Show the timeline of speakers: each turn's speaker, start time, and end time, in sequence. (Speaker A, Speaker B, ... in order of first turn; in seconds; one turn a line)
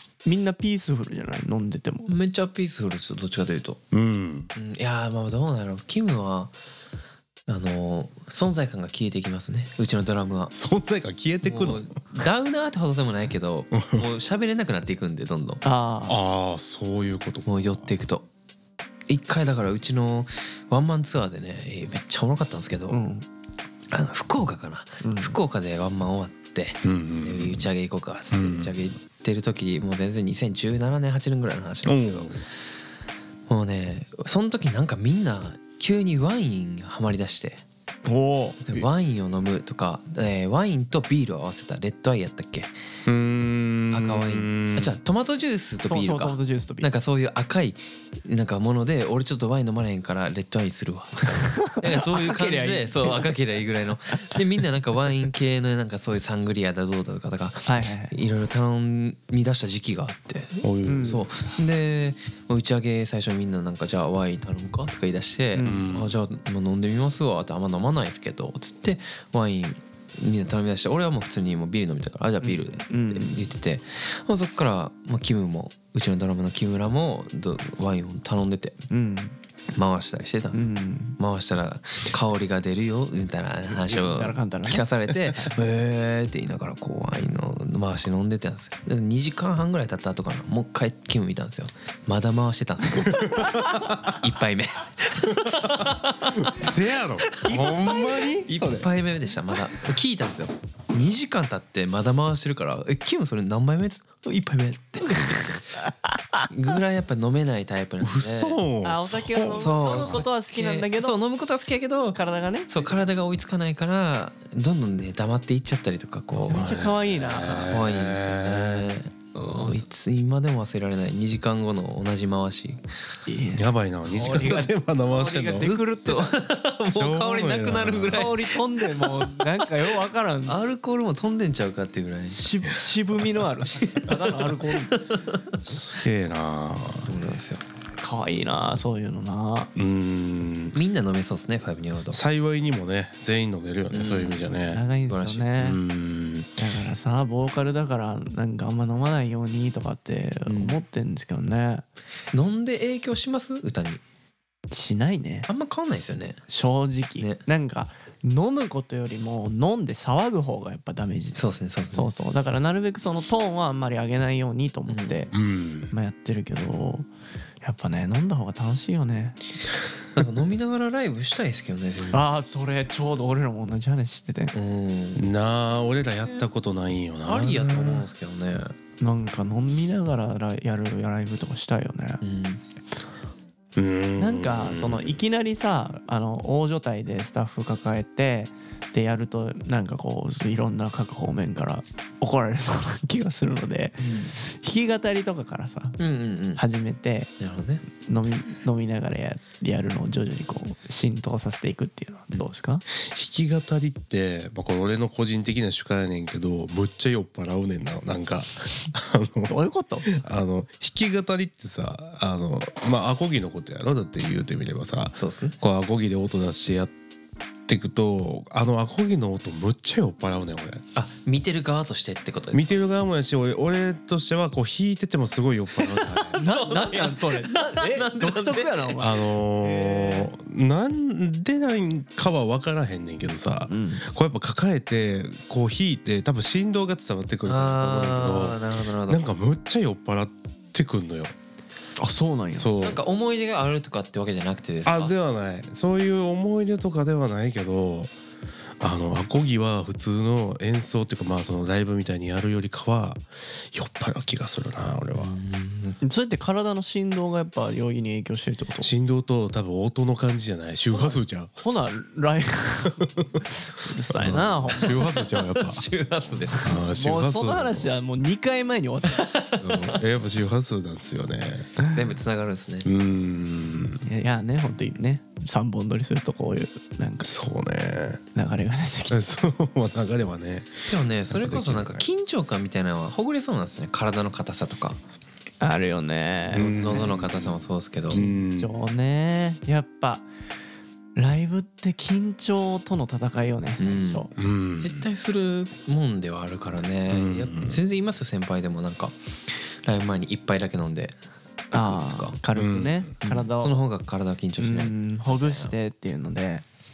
Speaker A: 0.2-2.1
Speaker B: 2.1-3.8
Speaker C: 3.9-4.5
Speaker B: 4.5-6.5
Speaker B: 7.5-10.5
Speaker C: 10.5-11.9
Speaker B: 11.4-15.6
Speaker C: 13.7-14.1
Speaker A: 15.6-16.2
Speaker C: 16.1-17.9
Speaker B: 17.5-18.3
Speaker B: 19.1-23.0
Speaker A: 22.9-23.3
Speaker B: 23.9-32.4
Speaker A: 25.0-25.4
Speaker C: 26.8-27.7
Speaker C: 28.3-28.8
Speaker C: 31.9-32.4
Speaker B: 33.5-37.6
Speaker A: 38.1-38.6
Speaker B: 38.6-42.7
Speaker C: 43.1-45.0
Speaker B: 43.9-78.8
Speaker A: 45.9-46.9
Speaker A: 51.4-53.3
Speaker A: 57.7-58.2
Speaker C: 60.6-61.2
Speaker A: 60.9-61.3
Speaker A: 65.5-65.9
Speaker C: 65.6-66.2
Speaker A: 72.4-73.5
Speaker A: 78.9-79.4
Speaker B: 79.7-93.5
Speaker A: 80.5-81.2
Speaker A: 83.7-85.5
Speaker A: 93.0-93.8
Speaker C: 93.1-94.2
Speaker B: 94.1-105.6
Speaker C: 95.3-98.9
Speaker A: 97.5-98.2
Speaker A: 105.1-106.5
Speaker B: 106.5-108.6
Speaker C: 108.0-110.2
Speaker A: 108.8-111.2
Speaker B: 109.4-116.6
Speaker A: 112.2-113.0
Speaker C: 116.4-118.9
Speaker A: 116.5-117.8
Speaker B: 117.7-122.8
Speaker A: 119.3-119.8
Speaker A: 123.3-126.3
Speaker C: 123.5-125.7
Speaker B: 125.6-129.8
Speaker C: 126.9-128.3
Speaker A: 128.1-130.6
Speaker B: 130.5-132.5
Speaker A: 132.3-135.0
Speaker B: 133.6-135.6
Speaker C: 135.7-137.1
Speaker B: 137.1-137.6
Speaker A: 138.0-139.7
Speaker C: 139.8-140.8
Speaker B: 140.7-142.2
Speaker C: 142.1-144.8
Speaker B: 143.9-144.4
Speaker A: 144.6-145.8
Speaker B: 145.0-145.5
Speaker C: 145.6-146.5
Speaker A: 146.6-151.8
Speaker B: 150.5-150.8
Speaker B: 152.3-154.0
Speaker A: 154.7-155.5
Speaker B: 155.5-156.4
Speaker A: 156.5-165.3
Speaker B: 157.2-157.4
Speaker B: 161.3-162.1
Speaker B: 164.9-165.2
Speaker C: 165.3-165.9
Speaker A: 165.9-167.1
Speaker A: 167.6-169.4
Speaker B: 170.1-172.3
Speaker A: 172.1-174.5
Speaker B: 174.5-175.3
Speaker C: 175.2-178.1
Speaker B: 177.3-178.8
Speaker A: 179.0-182.2
Speaker B: 182.2-182.6
Speaker C: 183.8-185.2
Speaker A: 184.2-196.0
Speaker B: 194.0-194.3
Speaker B: 196.0-196.6
Speaker A: 196.6-197.3
Speaker B: 197.4-197.8
Speaker A: 198.0-202.8
Speaker C: 202.9-216.9
Speaker A: 209.5-210.1
Speaker B: 215.2-215.6
Speaker C: 217.7-220.8
Speaker B: 220.9-222.7
Speaker C: 222.5-226.4
Speaker B: 225.8-229.0
Speaker A: 226.3-230.3
Speaker C: 229.0-241.3
Speaker A: 233.7-234.1
Speaker B: 237.5-239.3
Speaker A: 242.0-242.7
Speaker C: 242.5-243.0
Speaker B: 242.8-245.1
Speaker C: 244.8-248.1
Speaker C: 248.8-255.4
Speaker B: 255.1-256.0
Speaker A: 256.0-258.9
Speaker C: 258.8-261.5
Speaker A: 260.9-265.1
Speaker C: 263.0-263.4
Speaker C: 264.1-265.8
Speaker B: 264.2-266.8
Speaker C: 266.6-267.9
Speaker A: 266.8-269.3
Speaker B: 269.1-270.0
Speaker C: 269.6-271.7
Speaker B: 271.9-272.9
Speaker C: 272.9-274.0
Speaker A: 274.1-277.3
Speaker C: 277.2-278.2
Speaker A: 278.3-279.3
Speaker C: 279.1-282.1
Speaker B: 280.9-285.0
Speaker A: 285.6-287.0
Speaker C: 286.5-288.7
Speaker B: 286.5-288.2
Speaker A: 288.1-290.3
Speaker A: 291.2-294.3
Speaker B: 293.8-301.2
Speaker C: 294.4-295.1
Speaker C: 297.1-297.8
Speaker B: 301.7-302.4
Speaker A: 301.7-303.8
Speaker C: 302.6-303.1
Speaker B: 303.2-305.7
Speaker A: 304.6-306.6